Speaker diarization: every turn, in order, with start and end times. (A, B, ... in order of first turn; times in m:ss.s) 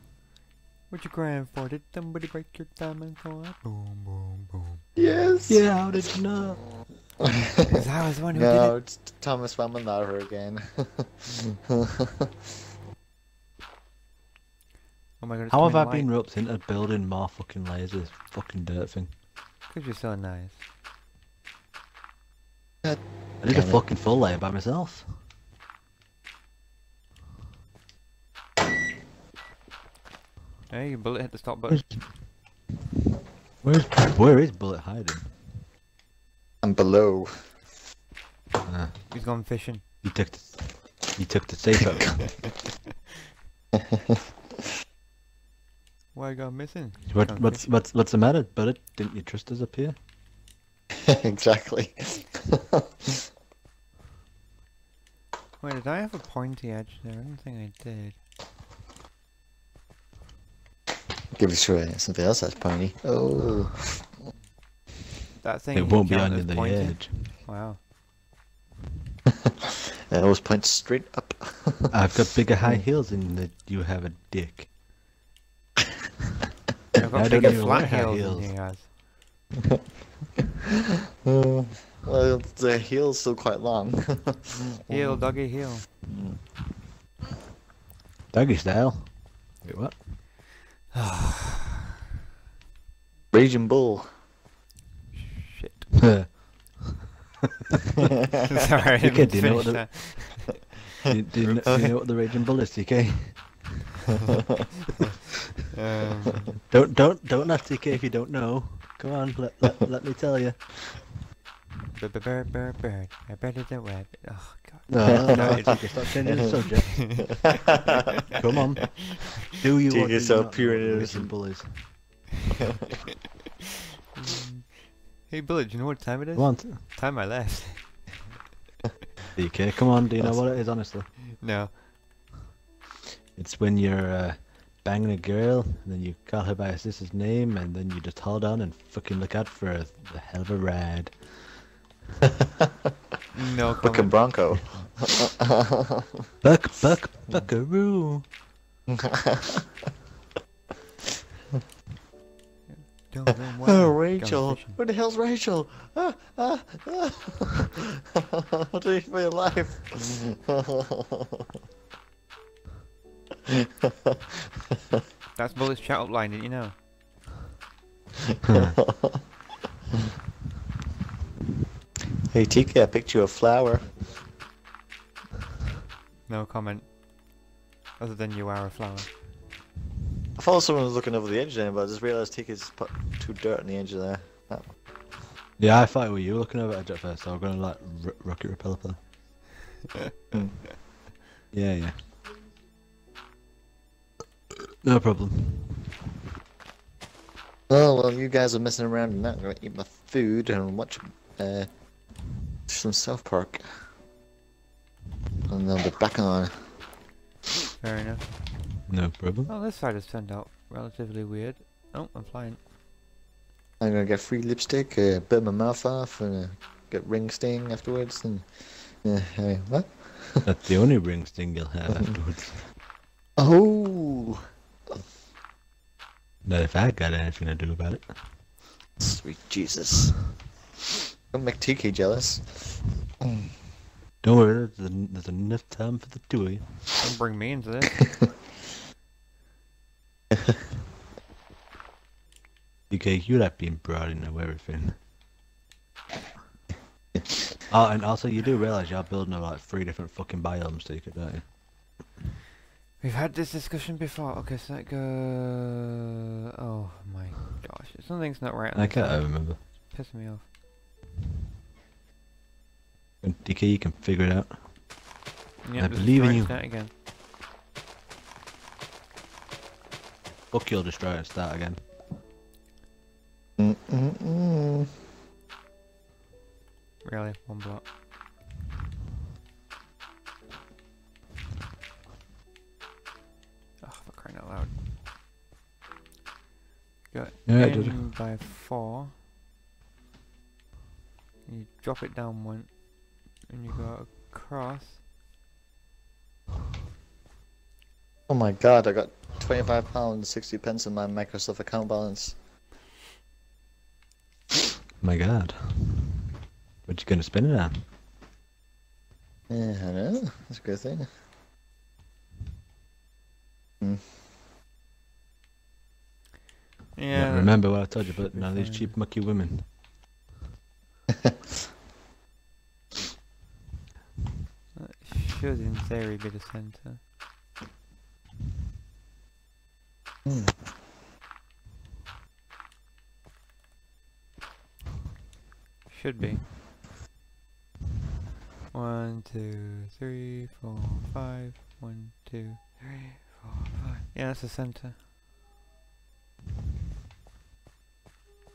0:00.9-0:04.8 A
0:05.0-0:05.7 B
0:05.5-0:06.8 C
0:07.7-0:08.8 A
0:08.3-0:12.1 B
0:15.2-0:16.1 A
0:15.5-0:19.1 C
0:19.7-0:20.6 A
0:22.8-0:23.8 B
0:23.4-0:25.2 C
0:30.7-0:31.8 A
0:31.7-0:32.2 C
0:33.6-0:35.6 C
0:36.6-0:37.6 B
0:38.6-0:39.0 C
0:39.1-0:39.8 A
0:40.0-0:42.5 C
0:46.1-0:47.7 A
0:47.1-0:50.0 C
0:51.1-0:52.8 B
0:55.6-0:58.2 A
1:01.4-1:04.1 B
1:05.4-1:07.8 A
1:05.7-1:07.3 C
1:10.1-1:11.9 B
1:11.9-1:14.7 C
1:16.9-1:18.9 A
1:17.1-1:18.5 C
1:21.2-1:25.4 B
1:24.8-1:25.9 A
1:26.1-1:26.4 B
1:28.3-1:30.0 C
1:30.9-1:31.8 A
1:33.3-1:34.1 B
1:35.1-1:36.0 A
1:36.0-1:37.0 C
1:38.4-1:40.7 A
1:39.0-1:43.8 C
1:41.4-1:41.8 A
1:41.6-1:41.9 B
1:45.7-1:46.6 A
1:46.7-1:51.0 C
1:51.9-1:58.1 A
1:54.9-1:57.5 C
1:55.3-1:55.6 B
1:58.3-2:02.0 C
1:59.8-2:01.4 B
2:04.2-2:08.2 A
2:06.3-2:06.9 C
2:09.3-2:11.1 C
2:11.4-2:11.8 A
2:13.3-2:21.7 C
2:23.3-2:24.5 A
2:23.8-2:26.0 B
2:26.4-2:28.2 C
2:28.9-2:29.6 B
2:32.7-2:34.8 A
2:33.6-2:41.2 B
2:40.0-2:40.2 A
2:43.5-2:44.1 B
2:45.3-2:46.8 A
2:48.8-2:49.2 B
2:52.3-2:53.9 B
2:56.3-2:56.9 A
2:58.0-2:59.1 A
3:00.4-3:04.7 B
3:05.6-3:09.0 C
3:10.3-3:10.6 B
3:11.5-3:12.0 C
3:14.8-3:16.0 C
3:17.7-3:21.7 B
3:22.7-3:23.6 B
3:25.5-3:26.5 B
3:27.8-3:28.3 A
3:28.9-3:29.5 C
3:29.5-3:32.6 A
3:33.8-3:40.4 B
3:40.4-3:42.7 C
3:43.4-3:44.4 B
3:46.4-3:48.1 C
3:49.0-3:50.3 B
3:51.3-3:53.5 B
3:54.2-3:57.0 C
3:57.0-3:58.2 A
4:02.9-4:05.0 C
4:07.7-4:11.5 C
4:13.0-4:16.0 A
4:16.5-4:20.5 A
4:18.8-4:19.6 C
4:23.2-4:24.6 C
4:25.6-4:26.9 A
4:25.8-4:26.6 C
4:30.5-4:31.8 C
4:33.6-4:34.9 B
4:37.0-4:37.8 A
4:43.8-4:44.7 A
4:47.1-4:49.1 A
4:47.4-4:48.0 C
4:51.4-4:55.0 A
4:58.3-5:02.4 B
5:05.0-5:06.2 C
5:06.8-5:07.8 C
5:09.5-5:11.1 B
5:16.9-5:19.0 A
5:17.1-5:19.7 C
5:24.7-5:27.0 A
5:30.2-5:30.6 B
5:35.9-5:36.5 A
5:38.7-5:45.0 A